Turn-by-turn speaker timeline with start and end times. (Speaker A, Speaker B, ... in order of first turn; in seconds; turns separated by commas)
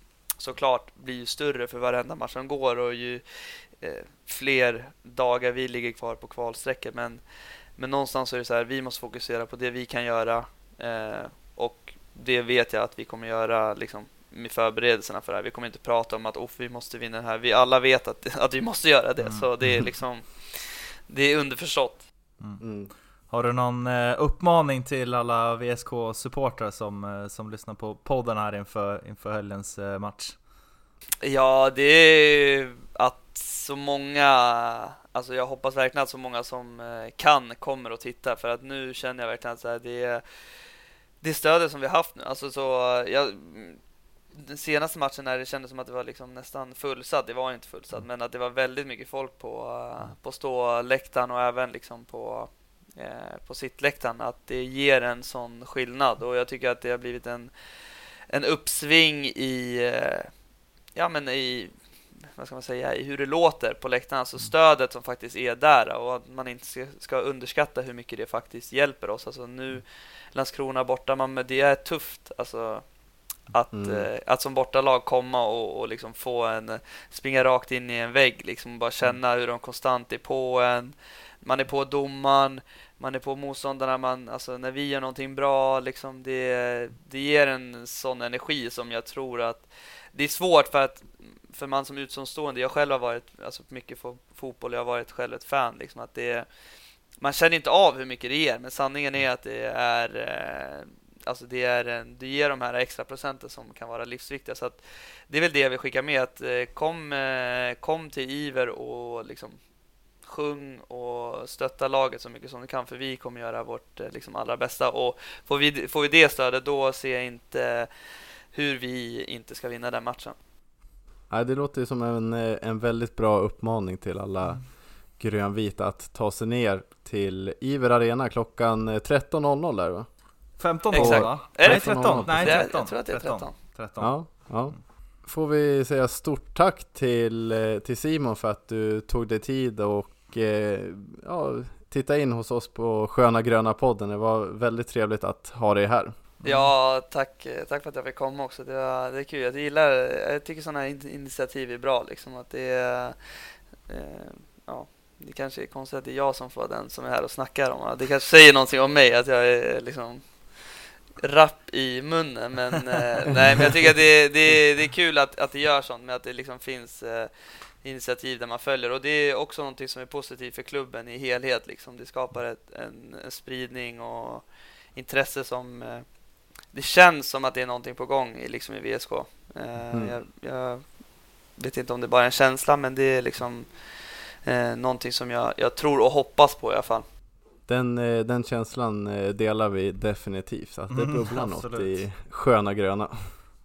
Speaker A: 0.4-7.2, Speaker A: 7.8-22.1, Speaker B: 22.6-22.9, Speaker C: 23.3-30.4, Speaker A: 31.2-40.2, Speaker A: 41.2-43.8, Speaker A: 44.3-57.5, Speaker A: 58.3-60.3, Speaker A: 61.0-72.9, Speaker A: 73.5-96.5, Speaker B: 73.7-74.1, Speaker A: 97.2-109.6, Speaker A: 110.2-117.9, Speaker A: 118.5-120.4, Speaker B: 121.3-124.7, Speaker B: 125.2-130.1, Speaker C: 130.6-134.5, Speaker B: 130.9-132.6, Speaker A: 130.9-133.6, Speaker B: 134.0-146.2, Speaker C: 146.4-146.7, Speaker A: 146.4-176.1, Speaker A: 176.7-180.8, Speaker A: 181.6-183.7, Speaker A: 184.4-187.1, Speaker B: 187.7-193.3, Speaker C: 190.9-192.0